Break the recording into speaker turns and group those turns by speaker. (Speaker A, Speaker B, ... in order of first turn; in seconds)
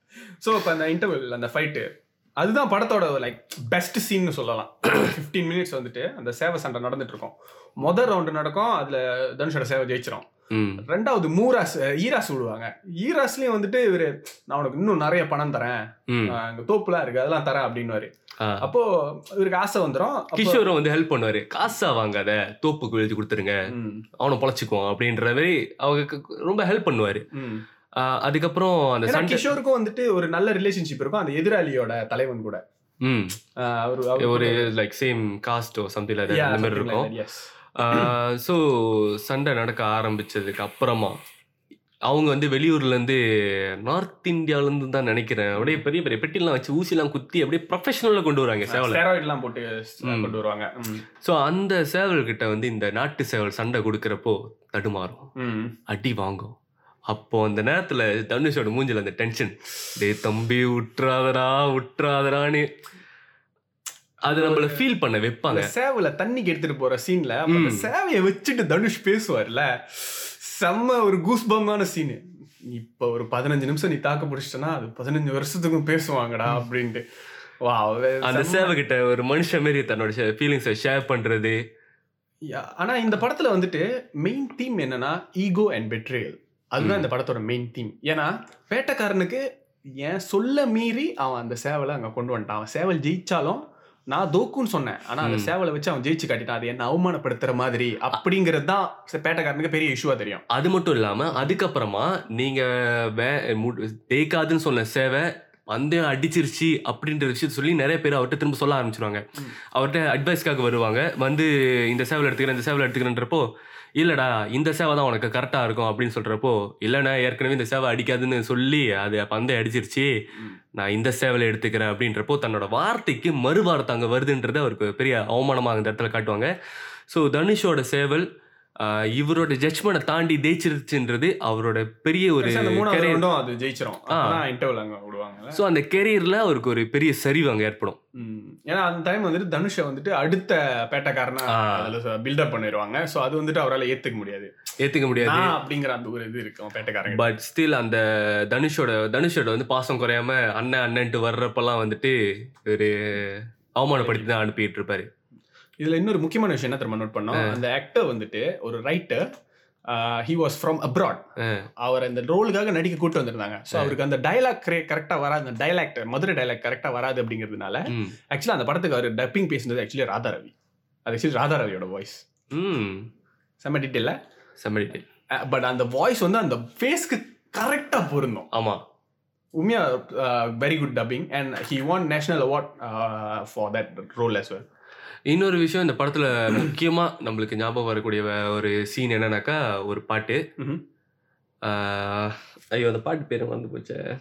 Speaker A: 0.4-10.3, 10.8-20.7, 23.7-24.1, 27.3-27.6, 29.1-32.6, 33.6-34.7, 36.3-37.5, 45.6-45.8, 48.7-51.1, 55.4-55.8, 64.3-64.9, 65.5-77.0, 77.6-78.8, 82.5-89.4, 90.0-100.5, 132.4-135.6, 138.2-144.5, 145.2-147.3, 155.8-159.2, 159.9-161.2, 161.8-170.5, 171.1-172.2, 173.6-174.2, 175.4-178.5, 179.6-184.7
Speaker B: 10.5-10.8, 16.1-16.4, 18.4-18.7, 20.3-23.6, 24.2-27.2, 28.0-29.5, 33.0-33.4, 34.2-37.1, 37.8-41.2, 42.1-43.2, 43.8-49.0, 50.0-50.4, 51.2-55.3, 55.9-56.5, 57.1-62.7, 64.2-65.7, 67.5-67.9, 78.2-81.6, 86.8-87.1, 95.2-95.5, 100.5-113.5, 114.0-120.1, 120.8-126.5, 127.1-128.3, 128.8-133.3, 134.1-134.4, 135.5-138.0, 141.5-141.9, 144.8-145.6, 147.1-155.1, 161.4-161.7, 167.9-168.2, 172.5-173.1, 174.6-175.1, 178.5-178.8, 185.3-190.4, 191.6-194.1